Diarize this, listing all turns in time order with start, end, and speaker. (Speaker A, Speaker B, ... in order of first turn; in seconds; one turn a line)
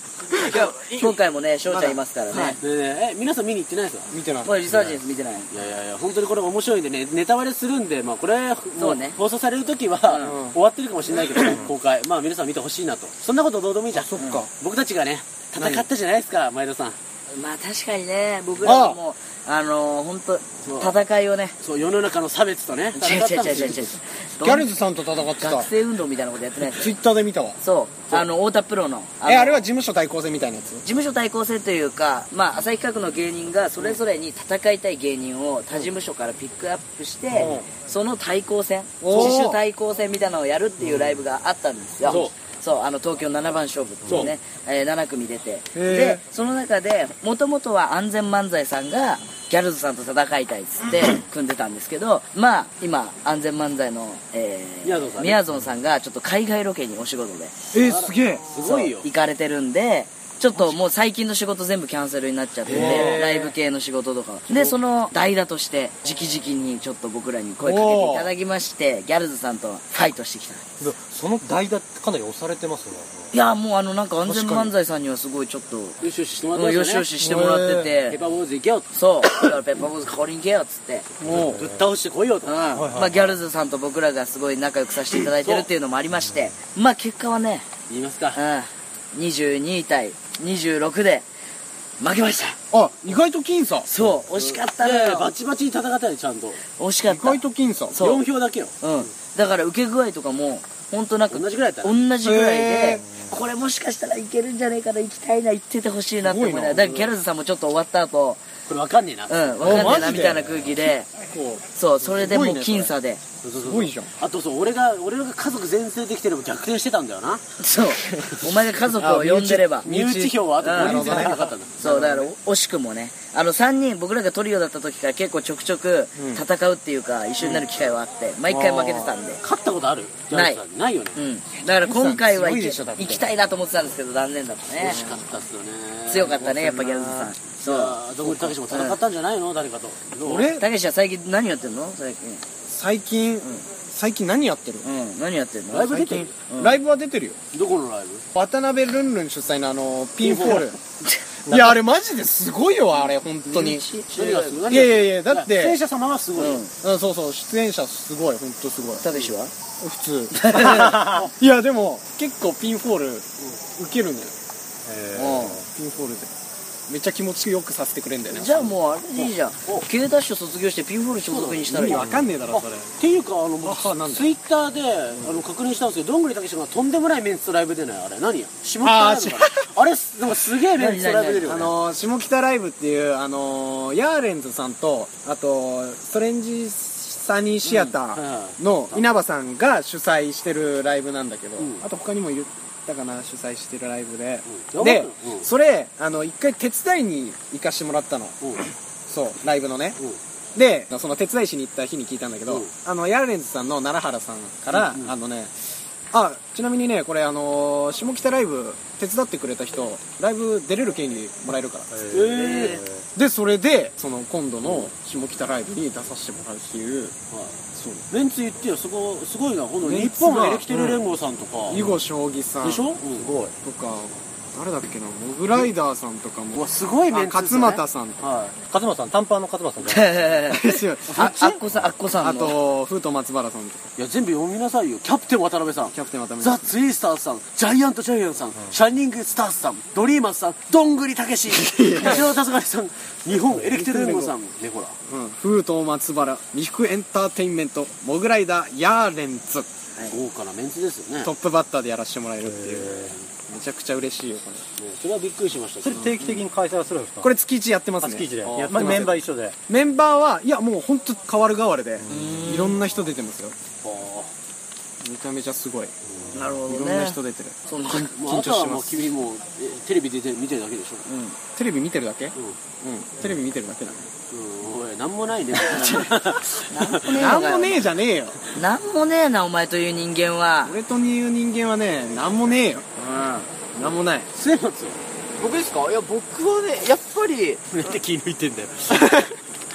Speaker A: 0.3-1.2
Speaker B: 0.5-2.6
Speaker C: 1.7-2.0
Speaker D: 2.6-4.1
Speaker C: 4.1-4.5
Speaker B: 4.4-5.5
Speaker D: 4.7-17.0
Speaker B: 8.8-9.2
Speaker B: 10.1-10.4
Speaker C: 10.2-10.6
Speaker C: 13.9-14.5
Speaker B: 14.2-14.4
Speaker C: 15.6-15.9
Speaker B: 17.3-21.6
Speaker C: 18.6-19.0
Speaker D: 20.7-20.9
Speaker D: 21.6-23.9
Speaker B: 22.9-24.7
Speaker C: 24.4-25.7
Speaker B: 25.4-26.9
Speaker C: 26.6-27.6
Speaker B: 27.6-29.6
Speaker C: 29.2-30.8
Speaker B: 30.8-57.5
Speaker C: 37.3-37.7
Speaker C: 39.0-39.6
Speaker D: 42.0-42.3
Speaker D: 44.1-44.3
Speaker C: 45.8-46.2
Speaker D: 54.9-55.4
Speaker C: 57.7-58.4
Speaker D: 57.7-59.1
Speaker B: 58.6-70.6
Speaker C: 62.7-63.5
Speaker D: 62.8-63.2
Speaker C: 67.6-68.3
Speaker E: 70.8-73.3
Speaker B: 73.3-76.0
Speaker C: 74.2-74.7
Speaker D: 76.0-77.1
Speaker B: 76.5-78.2
Speaker C: 77.2-77.9
Speaker D: 78.1-78.9
Speaker B: 78.9-81.1
Speaker C: 81.2-81.6
Speaker E: 81.2-81.9
Speaker D: 81.6-82.6
Speaker B: 82.5-87.7
Speaker E: 82.7-83.4
Speaker D: 85.2-85.7
Speaker D: 87.9-88.4
Speaker B: 88.3-91.3
Speaker B: 92.0-92.6
Speaker C: 92.7-93.9
Speaker B: 93.9-95.3
Speaker D: 94.3-96.6
Speaker B: 96.8-98.2
Speaker C: 97.1-98.0
Speaker D: 98.0-98.8
Speaker B: 98.8-108.4
Speaker D: 101.3-102.0
Speaker C: 102.2-103.0
Speaker C: 106.2-106.8
Speaker D: 106.8-107.1
Speaker D: 108.7-110.3
Speaker B: 109.3-111.1
Speaker C: 109.6-110.5
Speaker C: 111.2-112.9
Speaker B: 111.8-113.2
Speaker D: 113.4-117.4
Speaker C: 113.6-114.1
Speaker B: 117.6-119.9
Speaker C: 119.0-121.4
Speaker D: 119.8-122.2
Speaker B: 120.6-129.4
Speaker C: 126.2-126.4
Speaker D: 127.4-127.7
Speaker C: 128.5-129.2
Speaker D: 129.4-131.2
Speaker B: 130.3-130.6
Speaker B: 131.2-135.0
Speaker C: 131.7-133.3
Speaker D: 134.8-136.4
Speaker C: 134.8-135.2
Speaker B: 136.1-138.0
Speaker C: 136.3-137.3
Speaker D: 137.6-140.5
Speaker C: 138.3-138.5
Speaker B: 138.7-139.0
Speaker C: 140.2-140.7
Speaker B: 140.6-142.4
Speaker C: 142.7-144.9
Speaker B: 144.8-146.8
Speaker D: 145.7-146.3
Speaker C: 146.6-147.4
Speaker D: 147.5-148.3
Speaker C: 148.3-150.8
Speaker D: 150.2-150.7
Speaker C: 151.5-153.8
Speaker B: 153.5-154.6
Speaker D: 154.1-156.6
Speaker C: 154.7-155.8
Speaker B: 156.4-156.7
Speaker C: 156.8-159.1
Speaker B: 159.0-159.5
Speaker C: 159.8-164.3
Speaker B: 160.3-161.2
Speaker E: 164.9-165.7
Speaker B: 165.2-165.6
Speaker C: 165.7-166.3
Speaker C: 166.9-168.7
Speaker B: 168.3-172.0
Speaker D: 169.2-169.9
Speaker D: 171.3-172.0
Speaker C: 171.7-172.9
Speaker E: 171.9-172.3
Speaker D: 172.5-181.7
Speaker C: 173.6-174.3
Speaker C: 178.8-179.7
Speaker B: 180.8-181.7
Speaker C: 181.4-198.4
Speaker D: 187.9-189.1
Speaker D: 191.6-191.8
Speaker D: 194.5-195.5
Speaker C: 199.1-200.0
Speaker C: 200.6-205.6
Speaker D: 204.7-205.1
Speaker C: 206.1-211.9
Speaker E: 211.9-213.0
Speaker D: 212.1-212.8
Speaker B: 212.3-212.8
Speaker C: 213.2-217.2
Speaker C: 217.8-218.1
Speaker D: 218.1-221.8
Speaker C: 219.8-221.0
Speaker C: 221.7-223.0
Speaker E: 221.7-222.0
Speaker D: 222.6-223.5
Speaker C: 223.6-228.2
Speaker D: 226.6-228.6
Speaker E: 228.7-230.2
Speaker B: 229.8-232.6
Speaker C: 230.5-231.6
Speaker C: 232.2-233.8
Speaker D: 234.0-245.0
Speaker C: 235.9-236.7
Speaker C: 241.5-242.3
Speaker C: 243.6-244.3
Speaker C: 245.1-249.7
Speaker D: 250.1-251.3
Speaker C: 251.2-254.6
Speaker E: 252.5-253.2
Speaker D: 254.8-256.1
Speaker E: 255.8-257.3
Speaker C: 257.2-263.6
Speaker E: 258.0-259.6
Speaker D: 258.6-259.0
Speaker B: 262.1-262.8
Speaker D: 263.8-264.3
Speaker C: 265.0-265.9
Speaker B: 266.3-268.1
Speaker C: 266.7-269.1
Speaker D: 268.1-271.1
Speaker B: 271.1-271.4
Speaker C: 271.6-274.1
Speaker D: 274.3-277.4
Speaker B: 275.7-276.0
Speaker C: 275.7-276.0
Speaker B: 276.7-277.9
Speaker C: 277.1-278.4
Speaker B: 278.6-280.8
Speaker C: 280.6-282.9
Speaker B: 283.0-283.5
Speaker C: 283.8-284.3
Speaker D: 284.3-285.0
Speaker A: 285.4-287.6
Speaker D: 287.7-289.3
Speaker A: 288.9-289.3